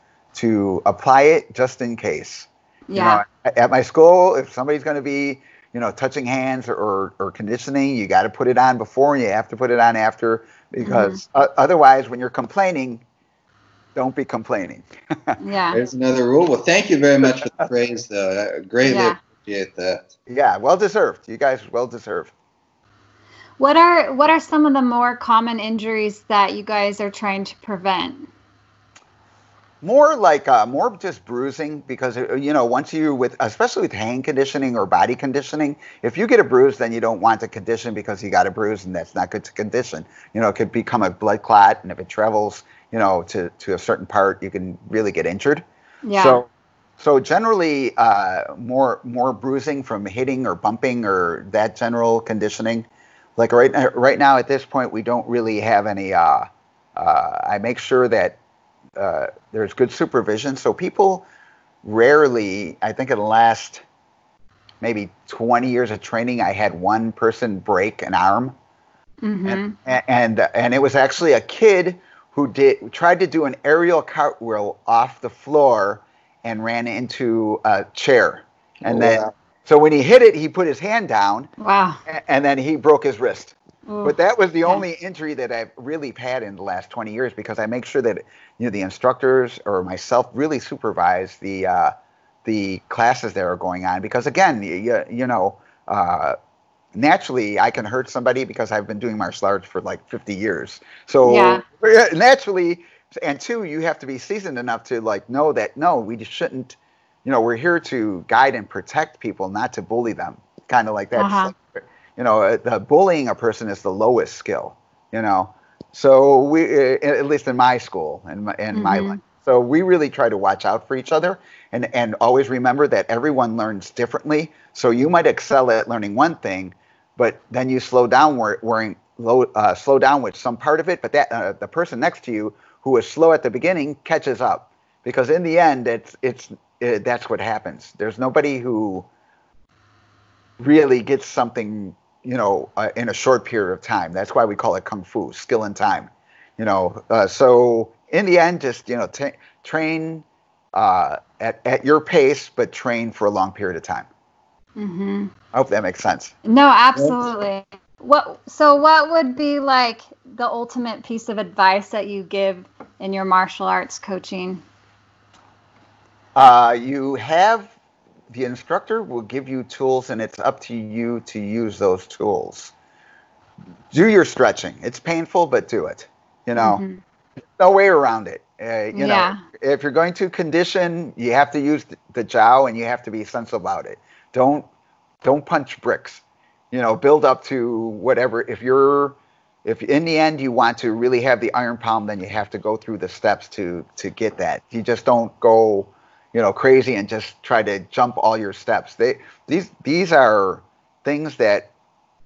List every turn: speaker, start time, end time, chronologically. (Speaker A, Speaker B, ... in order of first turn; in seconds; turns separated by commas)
Speaker A: 0.3-13.0, Speaker B: 2.9-3.2, Speaker B: 10.8-11.2, Speaker A: 13.9-15.4, Speaker B: 15.4-15.8, Speaker C: 15.7-20.1, Speaker B: 18.8-19.2, Speaker A: 20.3-22.3, Speaker B: 23.6-28.3, Speaker A: 29.8-58.4, Speaker B: 46.0-46.4, Speaker A: 59.0-61.3, Speaker A: 61.8-63.8, Speaker A: 64.8-68.5, Speaker B: 69.2-69.8, Speaker A: 69.5-81.5, Speaker C: 78.8-79.3, Speaker B: 81.6-82.0, Speaker A: 82.1-91.9, Speaker B: 83.9-84.8, Speaker A: 92.5-96.3, Speaker A: 96.9-139.1, Speaker B: 101.2-101.6, Speaker B: 111.2-111.5, Speaker B: 118.7-119.2, Speaker A: 140.6-154.1, Speaker B: 154.8-155.3, Speaker A: 155.5-156.3, Speaker B: 156.5-164.6, Speaker A: 166.3-167.7, Speaker A: 168.3-172.7, Speaker A: 173.9-176.8, Speaker B: 176.6-177.0, Speaker A: 177.6-184.7, Speaker B: 178.9-179.4, Speaker A: 185.2-201.7